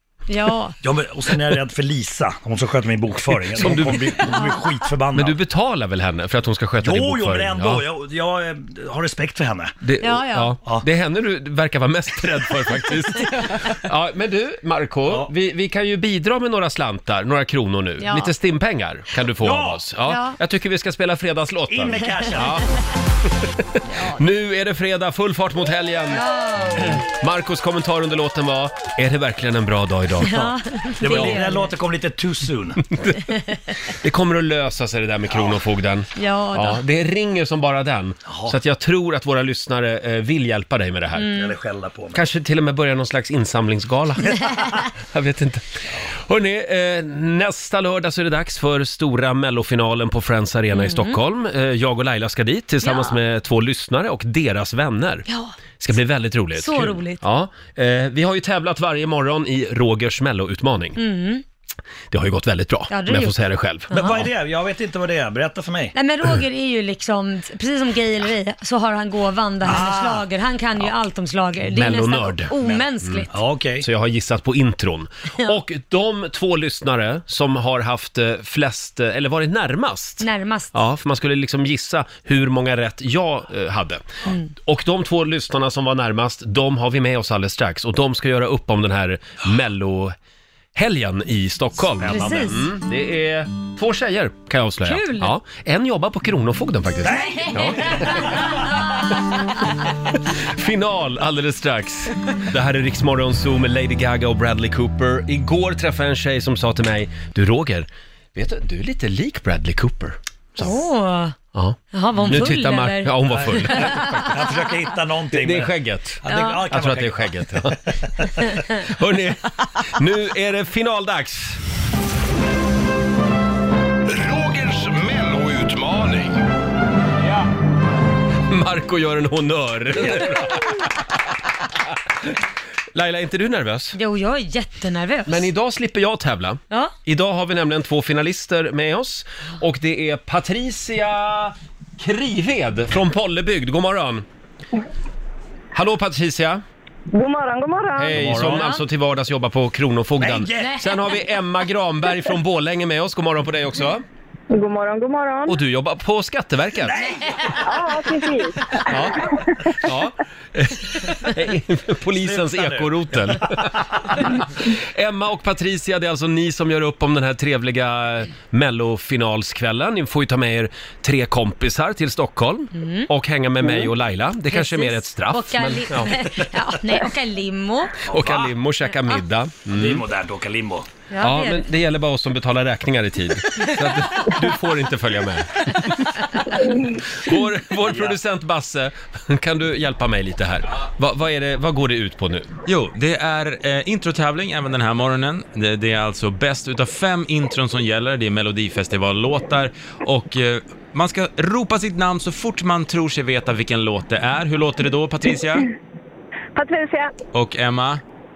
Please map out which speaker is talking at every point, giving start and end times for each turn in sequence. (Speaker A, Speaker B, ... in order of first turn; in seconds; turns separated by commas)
Speaker A: 0.3-0.8, Speaker B: 0.8-5.4, Speaker C: 3.6-4.3, Speaker A: 4.2-4.7, Speaker C: 5.2-7.8, Speaker B: 6.8-9.8, Speaker C: 9.8-22.7, Speaker A: 10.0-10.6, Speaker A: 18.0-18.3, Speaker B: 19.4-19.8, Speaker A: 20.1-20.4, Speaker B: 21.7-22.6, Speaker C: 23.7-30.4, Speaker A: 23.9-24.2, Speaker A: 26.1-27.0, Speaker A: 30.2-31.7, Speaker B: 30.3-32.8, Speaker C: 31.1-31.4, Speaker C: 32.9-41.3, Speaker B: 35.3-35.6, Speaker A: 36.2-36.8, Speaker B: 38.3-38.6, Speaker A: 41.2-41.5, Speaker B: 41.2-42.2, Speaker C: 42.1-44.5, Speaker C: 45.0-45.6, Speaker C: 46.3-55.3, Speaker A: 50.7-51.2, Speaker A: 52.8-53.2, Speaker A: 55.3-55.5, Speaker C: 55.8-61.0, Speaker A: 56.6-57.2, Speaker A: 61.0-61.4, Speaker C: 62.1-63.9, Speaker A: 62.9-63.4, Speaker A: 63.9-64.2, Speaker B: 63.9-66.0, Speaker A: 66.0-73.3, Speaker B: 69.6-70.3, Speaker C: 71.7-73.2, Speaker B: 73.3-73.9, Speaker C: 73.8-90.2, Speaker A: 80.2-80.8, Speaker C: 90.8-98.6, Speaker B: 91.8-92.6, Speaker A: 92.1-92.6, Speaker A: 94.8-95.3, Speaker B: 97.0-98.6, Speaker A: 97.4-98.8, Speaker C: 100.4-110.8, Speaker A: 110.6-111.3, Speaker C: 111.5-114.3, Speaker A: 111.9-113.1, Speaker B: 113.3-118.1, Speaker A: 113.7-114.3, Speaker C: 115.3-117.8, Speaker A: 116.3-116.6, Speaker C: 118.8-121.6, Speaker D: 124.1-126.4, Speaker C: 128.5-131.0, Speaker C: 132.9-134.0, Speaker A: 133.9-135.5, Speaker C: 135.3-144.3, Speaker C: 145.8-146.6, Speaker E: 147.1-148.2, Speaker C: 148.0-154.0, Speaker B: 148.2-148.7, Speaker B: 150.2-150.9, Speaker E: 154.5-155.6, Speaker C: 155.5-157.0, Speaker B: 156.8-157.6, Speaker E: 157.6-159.4, Speaker C: 158.9-176.1, Speaker B: 162.2-163.4, Speaker A: 172.7-173.1, Speaker A: 174.5-178.0, Speaker B: 178.1-178.5, Speaker C: 178.1-180.0, Speaker B: 179.7-180.9, Speaker A: 181.1-181.7, Speaker C: 181.2-185.9, Speaker C: 187.1-192.5, Speaker B: 187.8-188.2, Speaker F: 192.7-205.7, Speaker E: 206.6-207.1, Speaker F: 207.3-208.0